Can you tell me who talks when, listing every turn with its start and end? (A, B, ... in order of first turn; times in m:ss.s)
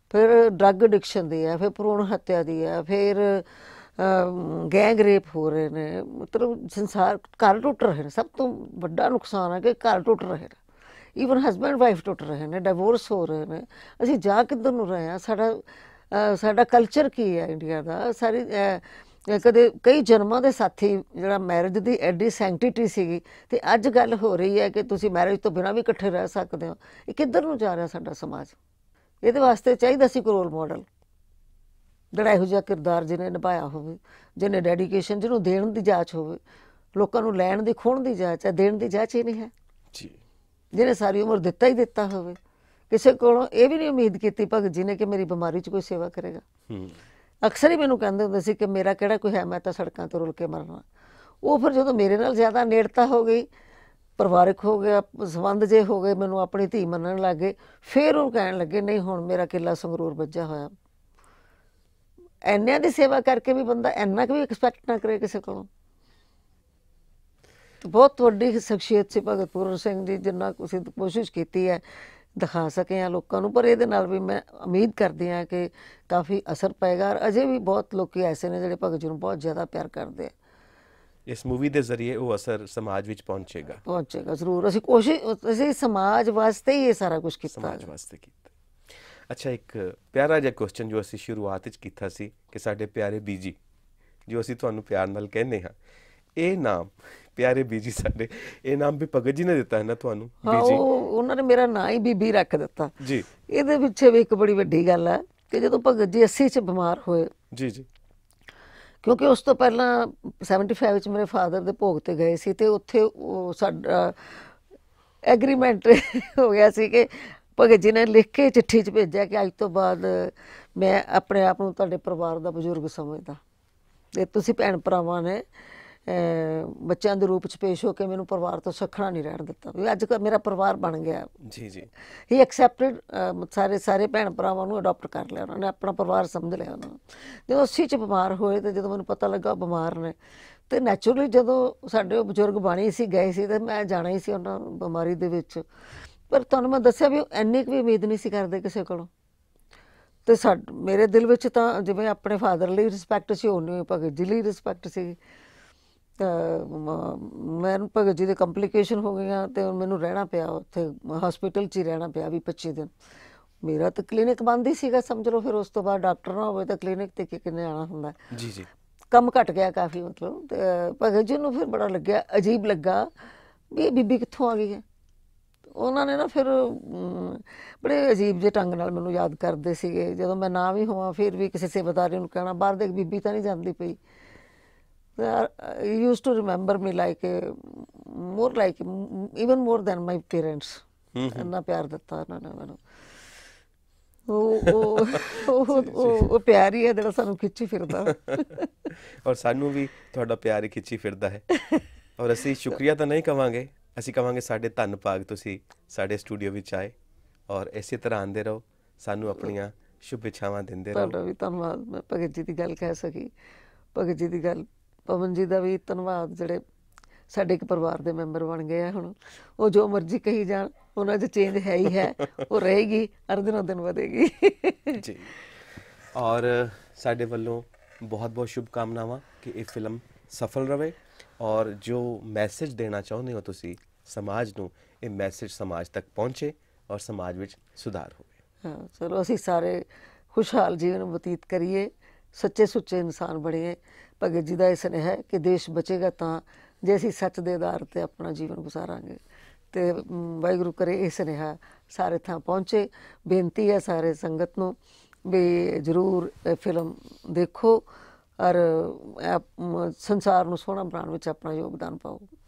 0:00.1-0:10.6 A
0:11.2-0:28.6 A
0:29.2-0:30.9 A
0:32.1-0:36.4 A
0:36.9-0:39.5 A
0:40.7-0:42.4 A
0:42.9-0:46.4 A
0:46.7-0:47.0 B
0:47.4-0:50.8 A
0:51.4-0:53.4 A
0:54.2-1:00.7 A
1:02.4-1:05.7 A
1:07.8-1:11.8 A
1:12.4-1:20.3 A
1:21.2-1:23.8 B
1:23.8-1:27.9 A
1:27.5-1:28.5 B
1:29.3-1:33.6 B
1:34.3-1:35.8 B
1:36.4-1:40.9 B
1:40.4-1:47.3 A
1:43.0-1:43.2 B
1:47.5-1:47.9 B
1:49.0-1:54.5 A
1:55.2-2:03.4 A
2:04.1-2:05.5 A
2:06.0-2:11.3 A
2:11.4-2:11.9 B
2:12.3-2:20.2 A
2:20.7-2:25.6 A
2:26.3-2:29.1 A
2:30.2-2:35.2 A
2:36.2-2:42.9 A
2:43.6-2:48.2 A
2:48.3-2:48.7 B
2:49.1-2:53.1 A
2:53.7-2:54.8 A
2:55.7-3:04.0 A
3:05.2-3:12.8 A
3:11.1-3:11.5 B
3:14.3-3:18.6 A
3:15.1-3:16.3 B
3:18.0-3:18.4 B
3:19.2-3:21.5 B
3:22.2-3:26.9 B
3:27.5-3:31.2 B
3:30.9-3:33.3 A
3:33.9-3:36.6 A
3:37.3-3:45.0 A
3:45.0-3:45.3 B
3:46.1-3:58.3 B
3:58.6-4:09.2 A
4:09.7-4:17.8 A
4:18.4-4:22.3 A